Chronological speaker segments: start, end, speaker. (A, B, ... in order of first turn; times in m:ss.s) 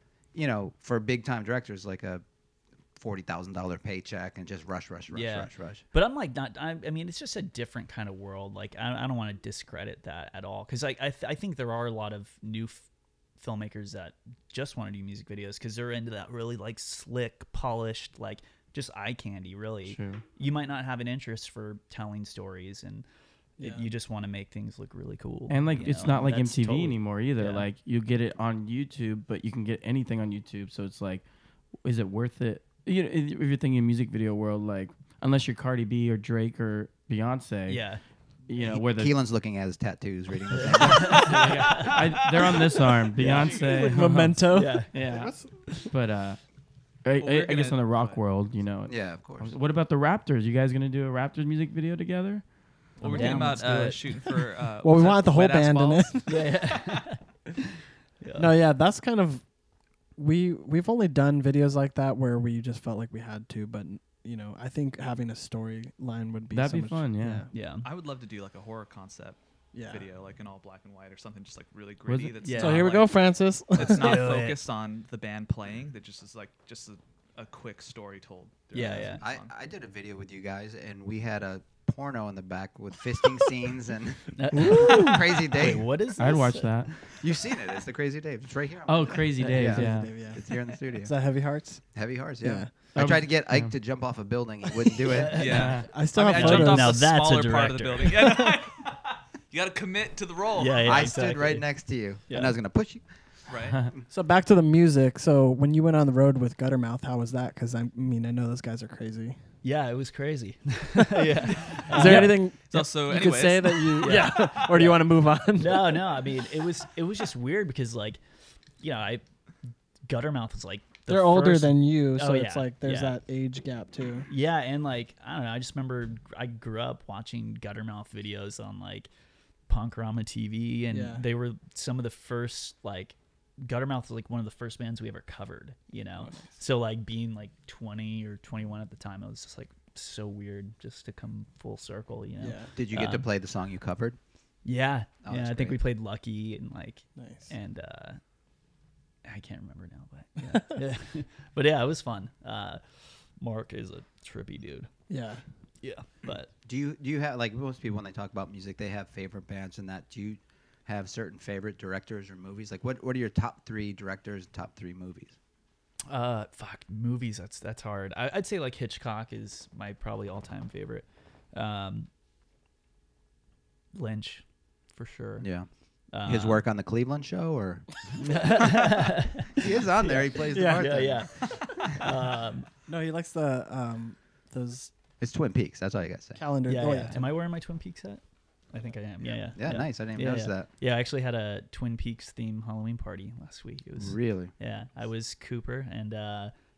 0:00.3-0:02.2 A
0:03.0-0:05.8 A
0:05.1-0:12.8 B
0:13.4-0:23.0 B
0:19.8-0:20.2 C
0:23.6-0:23.8 D
0:23.6-0:27.6 B
0:25.5-0:31.2 C
0:31.8-0:37.8 C
0:37.6-0:38.0 B
0:38.5-0:39.1 C
0:38.6-0:41.5 A
0:40.5-0:42.2 B
0:40.6-0:45.3 C
0:41.4-0:43.9 E
0:43.2-0:43.6 B
0:43.3-0:45.9 D
0:44.5-0:45.1 B
0:45.9-0:46.4 C
0:47.0-0:52.4 C
0:47.2-0:48.2 E
0:48.9-0:49.5 A
0:53.0-0:56.4 E
0:53.0-0:54.3 B
0:53.0-0:53.5 D
0:54.8-0:56.4 D
0:56.3-0:57.2 B
0:58.2-0:58.5 B
0:58.4-0:59.4 D
1:00.2-1:07.5 D
1:06.5-1:07.5 C
1:07.5-1:07.8 B
1:07.8-1:19.5 E
1:09.7-1:10.0 D
1:12.1-1:12.5 C
1:12.4-1:12.9 B
1:12.6-1:14.2 D
1:13.8-1:14.6 B
1:18.7-1:19.2 B
1:18.8-1:25.9 A
1:24.4-1:27.0 B
1:24.5-1:25.2 C
1:26.2-1:26.9 C
1:27.2-1:31.1 A
1:28.8-1:30.2 C
1:29.4-1:32.8 D
1:31.9-1:35.6 A
1:32.9-1:33.7 C
1:35.1-1:38.3 B
1:35.3-1:41.0 E
1:35.5-1:35.9 C
1:35.8-1:37.0 D
1:40.5-1:41.7 B
1:40.8-1:43.0 A
1:42.3-1:42.5 B
1:43.5-1:43.8 E
1:44.1-1:49.4 D
1:49.6-1:52.4 B
1:51.0-1:56.2 D
1:52.0-1:54.4 E
1:54.0-1:58.2 B
1:58.8-1:59.2 B
2:00.1-2:03.2 B
2:01.1-2:04.3 D
2:04.3-2:09.1 B
2:09.7-2:23.2 B
2:10.9-2:11.2 D
2:16.2-2:16.5 D
2:22.4-2:22.7 D
2:22.7-2:24.2 A
2:24.6-2:28.2 B
2:25.2-2:25.8 A
2:27.2-2:27.5 D
2:29.2-2:32.8 B
2:33.4-2:34.9 B
2:35.1-2:35.4 D
2:35.8-2:36.5 B
2:36.6-2:45.4 A
2:46.1-2:52.1 B
2:53.9-2:55.5 B
2:55.4-2:55.7 A
2:56.1-2:56.6 B
2:56.2-3:02.0 A
2:58.2-3:02.7 B
3:00.5-3:00.9 D
3:02.9-3:04.9 D
3:05.2-3:06.4 A
3:06.4-3:07.3 D
3:06.6-3:16.5 B
3:09.5-3:10.7 A
3:14.0-3:14.5 A